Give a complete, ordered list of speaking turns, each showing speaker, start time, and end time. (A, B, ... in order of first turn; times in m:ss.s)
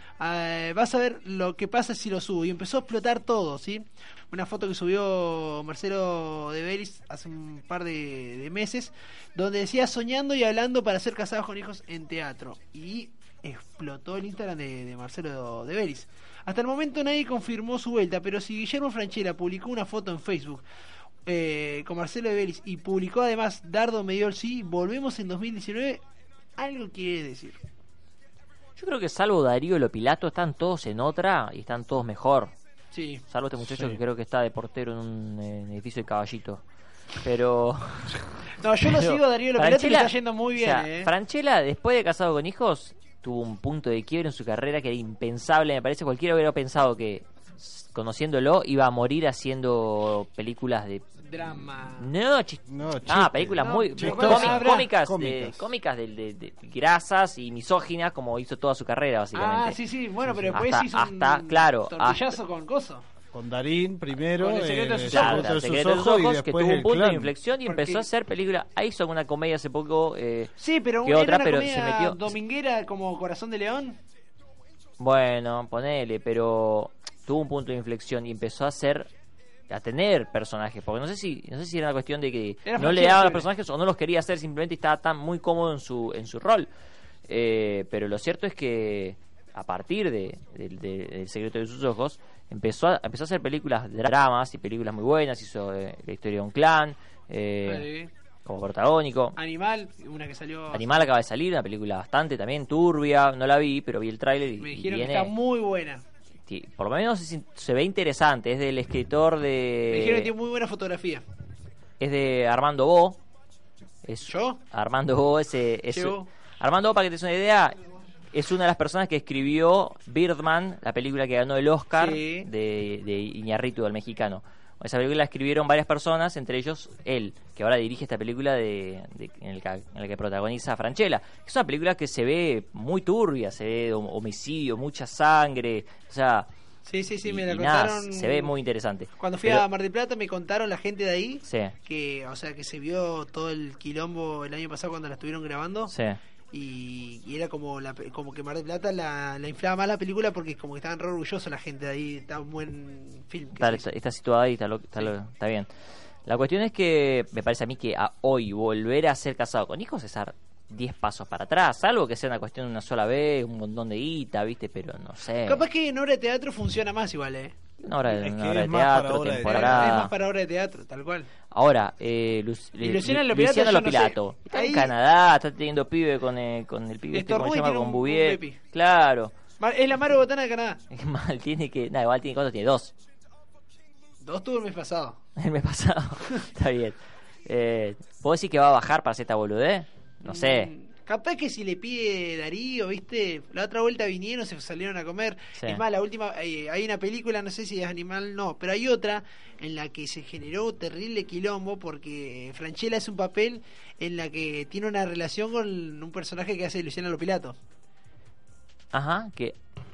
0:00.2-0:20.6 A
0:21.3-0:26.0 A
0:26.6-0:27.6 A
0:28.8-0:32.5 B
0:32.9-0:33.2 A
0:33.3-0:59.8 B
0:33.6-0:34.0 C
0:38.6-0:41.1 A
0:51.2-0:52.1 A
0:52.7-0:55.7 C
0:53.6-0:54.9 A
0:59.3-1:03.0 A
1:00.3-1:00.6 C
1:00.5-1:02.4 B
1:03.3-1:07.3 C
1:04.4-1:05.5 A
1:05.0-1:10.5 B
1:07.7-1:08.1 A
1:10.6-1:14.0 A
1:11.0-1:12.4 B
1:15.0-1:19.1 B
1:19.7-1:26.7 B
1:22.7-1:23.5 A
1:27.3-1:37.9 B
1:37.6-1:38.1 A
1:38.5-1:39.4 B
1:39.4-1:41.0 A
1:40.7-1:45.3 B
1:44.6-1:46.0 A
1:46.5-1:50.3 B
1:49.9-1:51.2 A
1:52.0-1:53.2 B
1:54.0-1:57.8 B
1:54.3-1:54.6 A
1:55.9-1:56.3 A
1:58.3-2:16.5 B
2:01.9-2:02.5 A
2:16.9-2:18.5 A
2:17.2-2:19.6 B
2:19.2-2:25.9 A
2:21.5-2:21.8 B
2:25.9-2:26.2 B
2:26.5-2:33.8 A
2:33.6-2:35.7 B
2:36.3-2:45.6 B
2:45.5-2:47.6 A
2:47.8-2:50.1 B
2:48.1-2:50.1 C
2:49.4-2:51.3 A
2:51.5-2:59.3 B
2:52.8-2:54.9 A
2:57.1-2:58.6 A
2:59.6-3:00.8 A
3:00.9-3:02.9 B
3:04.2-3:05.2 A
3:05.4-3:10.7 B
3:10.2-3:27.6 A
3:28.9-3:29.6 B